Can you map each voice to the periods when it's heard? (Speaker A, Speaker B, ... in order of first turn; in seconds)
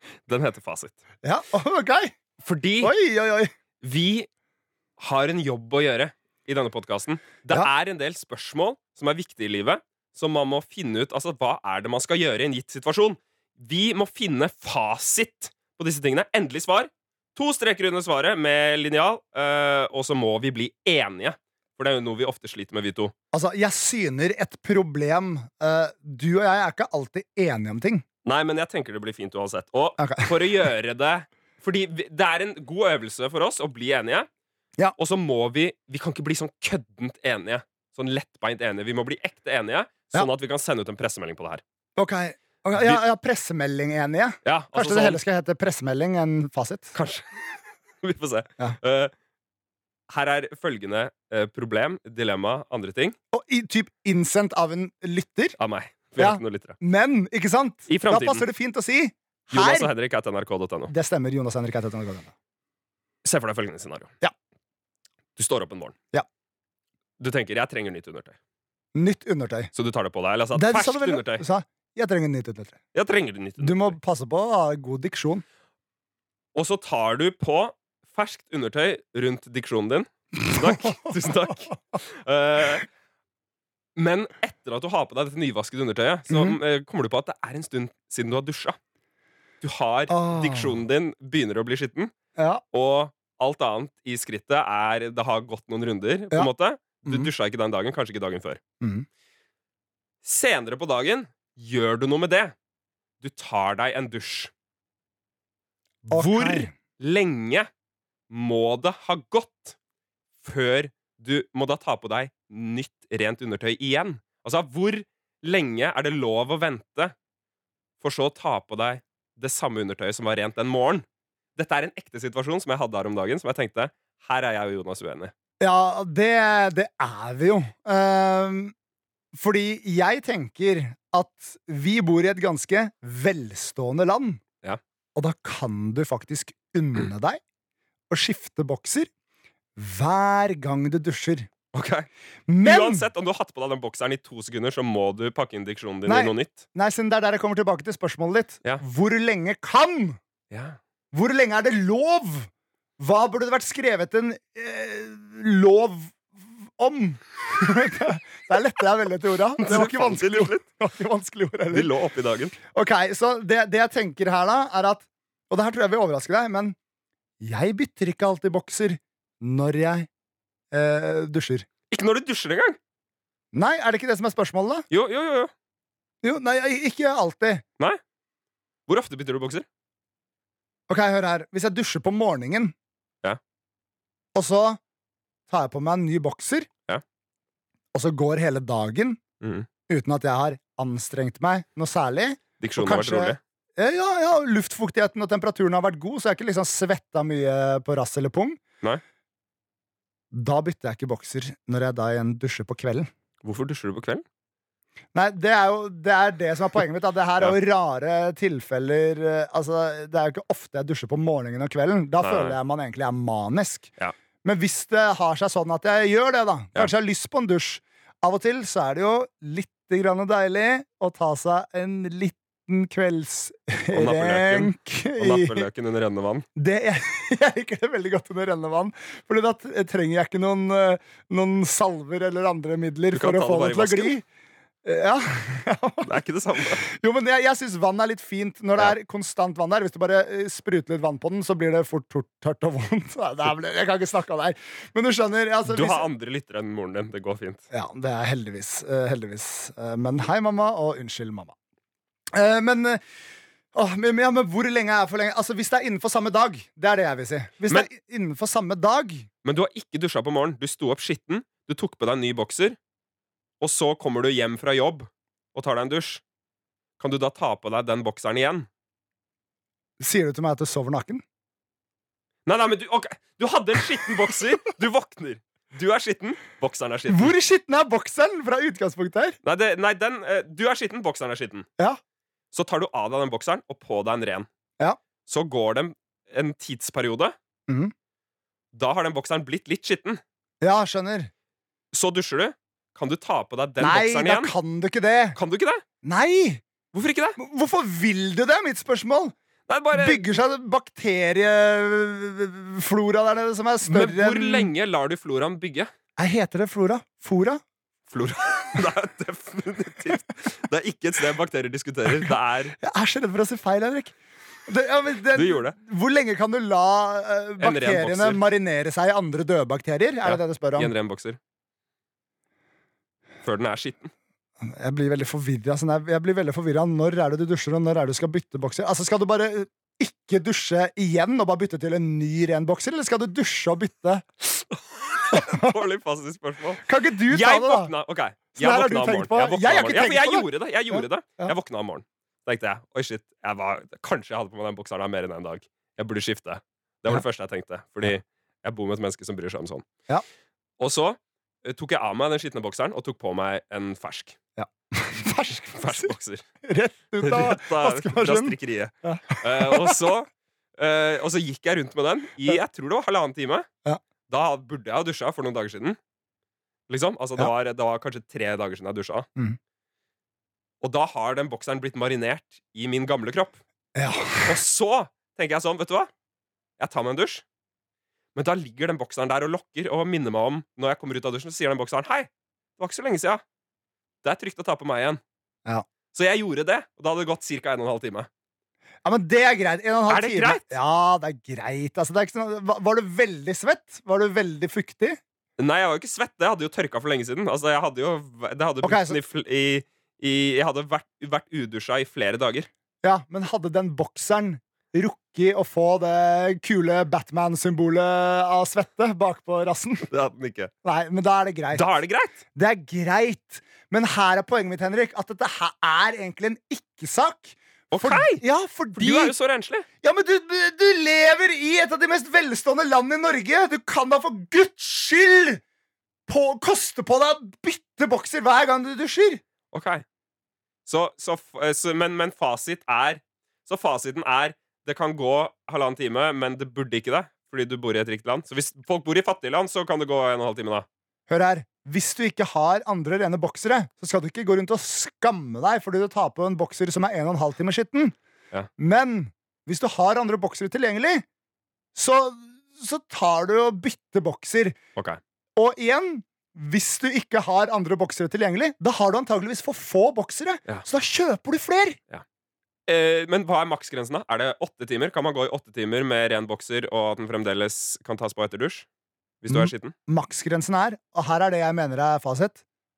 Speaker A: 0.3-1.0, 2.4-2.9, 3.8-4.3, 5.0-23.1, 28.2-34.3, 35.0-41.6, 42.7-43.0, 44.5-45.2, 47.0-47.4, 48.0-49.1, 50.1-53.2, 55.6-56.8, 57.9-58.5, 59.5-60.9, 63.2-64.1, 65.4-66.0, 67.2-68.3, 69.7-71.4, 73.0-74.0, 76.5-82.9, 84.0-88.8, 89.6-92.1, 92.7-98.6, 100.2-102.5, 103.2-104.5, 106.1-107.7, 108.3-109.8, 110.4-117.1, 118.0-121.0, 121.6-125.3, 141.7-142.1, 142.6-146.6, 150.5-150.8, 159.6-160.6, 161.7-162.5, 171.9-172.8, 174.9-175.5, 178.9-179.7, 189.4-189.7, 192.6-193.4, 203.4-204.2, 212.2-212.6, 223.9-226.5, 233.1-234.1, 236.1-236.8, 245.7-247.6, 259.4-262.8, 263.6-266.2, 267.0-268.7, 272.5-277.3, 279.4-281.7, 282.5-284.5, 285.3-287.4, 288.7-290.2, 291.9-294.5, 295.4-295.8, 296.9-297.4, 299.7-300.3, 303.9-305.9, 308.1-312.8, 315.4-315.8, 317.6-318.4, 320.2-321.4, 323.4-324.1, 335.1-349.9, 350.8-354.4, 355.8-356.4, 357.2-363.7, 364.3-366.0, 366.9-369.3, 370.8-373.6, 374.4-376.1, 376.8-377.4, 378.4-383.4, 384.2-385.2, 386.1-388.3, 390.1-390.7, 395.6-402.7, 410.1-410.7, 411.7-412.4, 417.9-418.4, 419.0-419.9, 429.7-430.1, 430.9-440.9, 462.9-468.9, 469.4-469.9
Speaker B: 1.2-2.1, 2.8-3.5, 23.3-28.0, 30.0-30.5, 42.0-46.9, 53.3-55.6, 56.2-59.9, 60.9-62.3, 69.0-69.7, 70.5-72.8, 73.6-75.4, 80.5-81.5, 86.3-86.6, 90.1-90.8, 92.4-92.6, 98.8-99.1, 106.1-106.7, 125.6-128.7, 129.3-134.4, 135.2-137.4, 138.1-139.1, 139.8-141.5, 142.5-143.1, 146.1-150.2, 151.1-161.9, 162.7-166.8, 167.4-170.1, 170.7-171.7, 173.5-174.8, 176.2-177.6, 180.9-182.7, 184.3-184.8, 185.5-186.7, 187.9-189.2, 189.9-198.6, 200.3-203.1, 205.1-213.9, 214.4-225.7, 226.6-234.2, 234.8-236.2, 236.8-246.1, 247.7-251.6, 252.3-253.0, 253.7-259.3, 270.0-271.2, 277.1-279.4, 287.7-287.9, 290.6-291.3, 293.8-295.4, 296.0-296.6, 297.4-299.4, 299.9-304.7, 306.2-307.6, 312.1-314.2, 314.7-320.9, 324.6-334.3, 335.3-335.8, 336.9-337.9, 338.6-341.5, 354.6-356.1, 356.6-360.0, 374.0-374.6, 389.0-395.2, 398.8-399.2, 403.0-410.1, 410.8-411.9, 412.6-419.3, 420.0-425.6, 426.3-429.4, 441.3-448.1, 448.8-451.2, 451.9-454.8, 455.6-462.0, 469.5-472.6